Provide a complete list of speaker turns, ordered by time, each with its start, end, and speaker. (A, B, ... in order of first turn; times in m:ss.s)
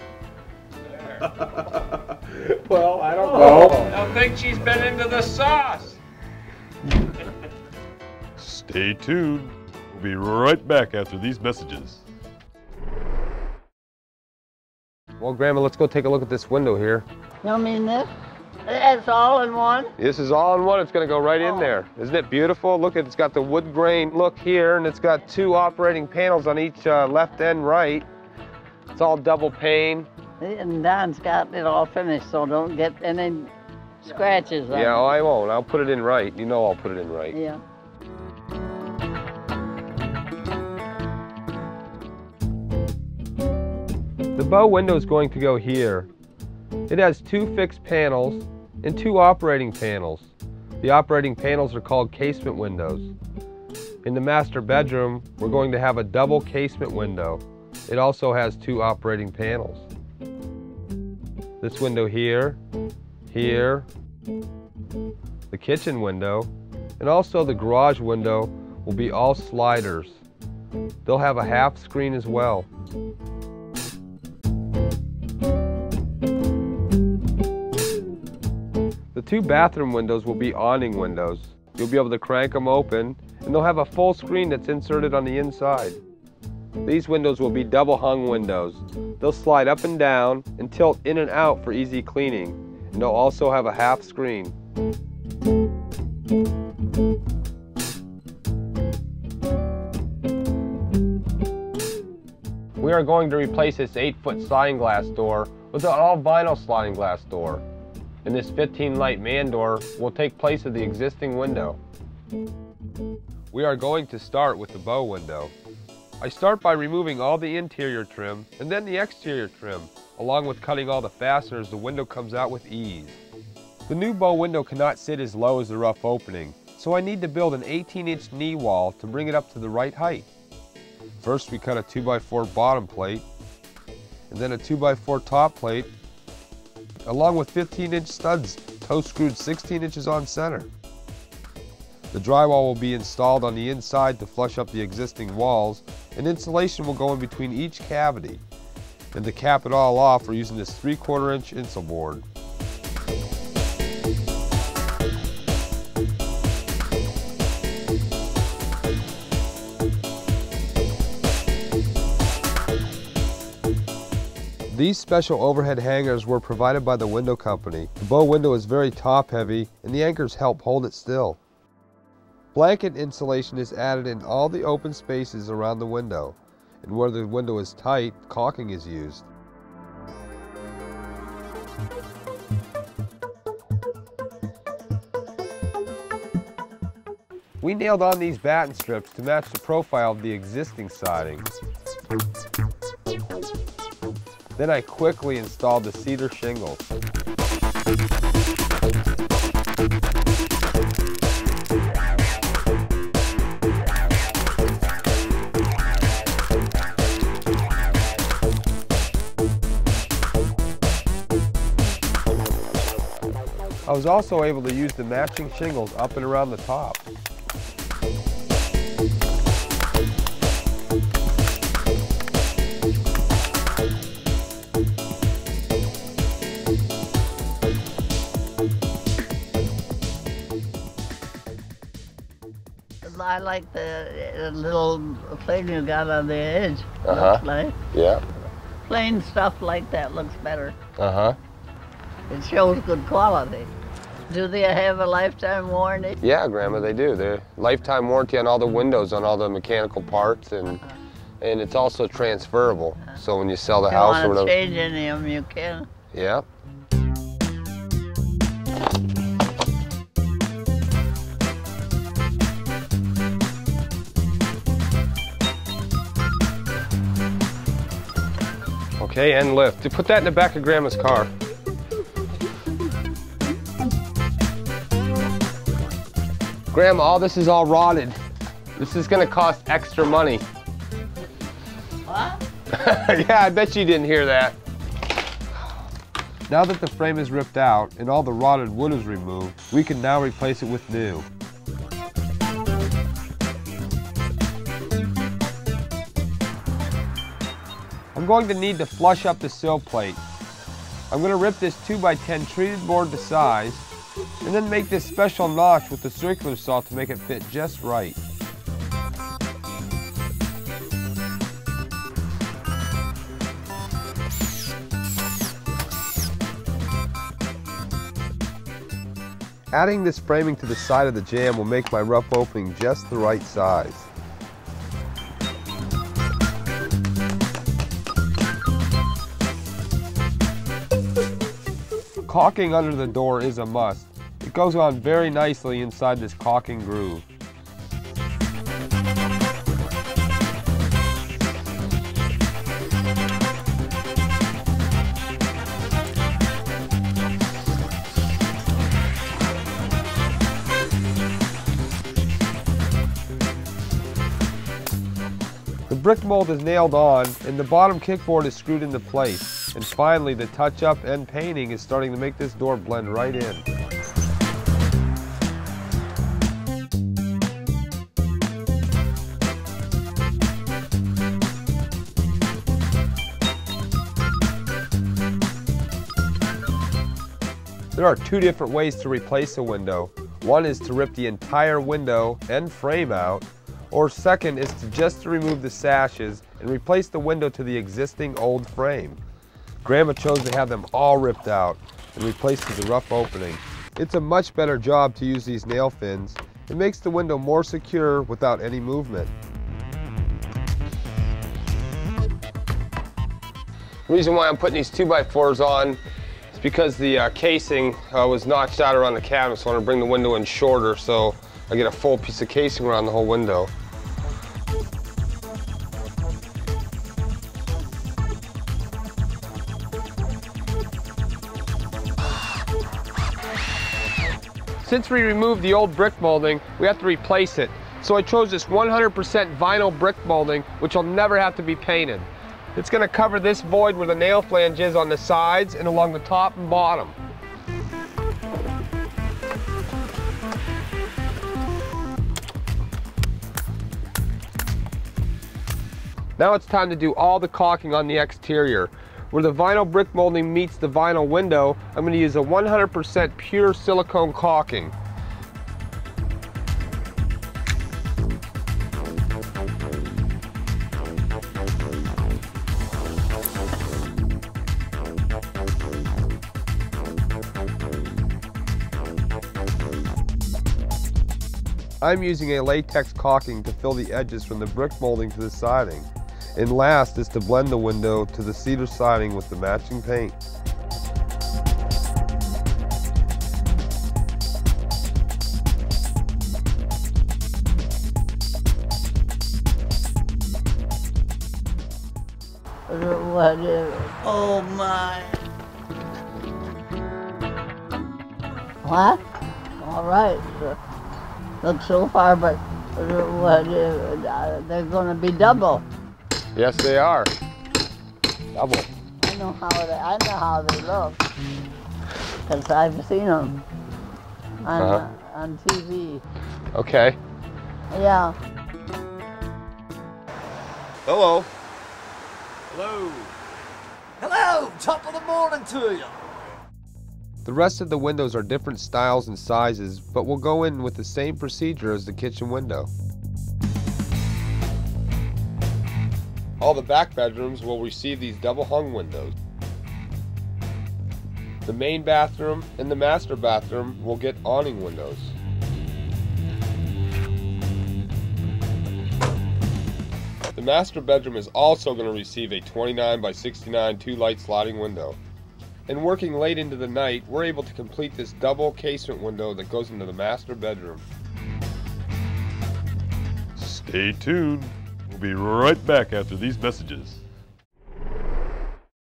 0:00.9-0:01.6 A
0:01.4-0:04.0 B
0:03.2-0:06.0 A
0:08.4-0:12.0 C
0:15.2-0:17.1 B
0:17.4-0:18.1 D
0:18.7-0:19.9 D
0:20.0-0:28.1 B
0:21.4-0:21.7 D
0:28.9-0:30.1 B
0:30.4-0:33.5 D
0:34.0-0:35.1 D
0:34.7-0:37.4 B
0:37.3-0:37.6 D
0:44.4-0:46.1 B
0:46.9-0:50.3 B
0:50.8-0:53.1 B
0:54.0-0:59.9 B
1:01.6-1:02.6 B
1:03.3-1:03.9 B
1:05.5-1:10.2 B
1:11.0-1:12.7 B
1:19.1-1:26.0 B
1:26.8-1:34.6 B
1:42.8-1:47.6 B
1:48.2-1:51.8 B
1:53.5-1:55.5 B
1:56.2-2:03.2 B
2:03.9-2:10.3 B
2:11.2-2:13.2 B
2:14.3-2:15.9 B
2:17.1-2:20.7 B
2:22.1-2:28.4 B
2:29.1-2:32.2 B
2:44.7-2:51.4 B
2:52.5-2:59.3 B
3:07.6-3:11.5 B
3:14.6-3:16.8 B
3:33.9-3:37.0 B
3:53.0-3:57.8 D
3:57.0-3:58.2 B
3:58.9-4:00.8 D
4:01.0-4:01.4 B
4:02.3-4:03.7 D
4:04.3-4:06.2 D
4:06.2-4:10.8 B
4:11.4-4:14.5 B
4:13.9-4:15.9 D
4:16.1-4:16.5 B
4:29.0-4:31.3 B
4:36.7-4:38.2 B
4:38.8-4:40.4 B
4:42.0-4:42.4 D
4:42.7-4:44.6 B
4:46.5-4:51.3 B
4:58.1-5:00.2 B
5:01.1-5:03.9 B
5:04.4-5:08.2 B
5:19.7-5:24.1 B
5:32.2-5:37.3 B
5:55.9-6:03.7 B
6:17.9-6:29.2 B
6:29.8-6:39.3 B
6:44.1-6:46.0 B
6:46.5-6:53.7 B
7:04.8-7:17.2 B
7:26.4-7:35.0 B
7:52.0-8:00.4 B
8:12.9-8:15.4 D
8:18.8-8:19.2 D
8:19.8-8:20.8 D
8:21.6-8:25.8 D
8:26.6-8:27.3 B
8:28.5-8:28.9 B
8:29.2-8:31.2 D
8:32.5-8:33.6 D
8:34.6-8:36.2 D
8:34.8-8:35.0 B
8:36.7-8:37.2 B
8:37.9-8:38.4 D
8:41.1-8:41.5 B
8:42.7-8:43.3 E
8:44.2-8:46.2 E
8:47.4-8:52.9 B
8:56.6-8:59.4 B
9:01.6-9:05.4 B
9:10.5-9:15.2 B
9:15.9-9:21.0 B
9:23.6-9:27.2 C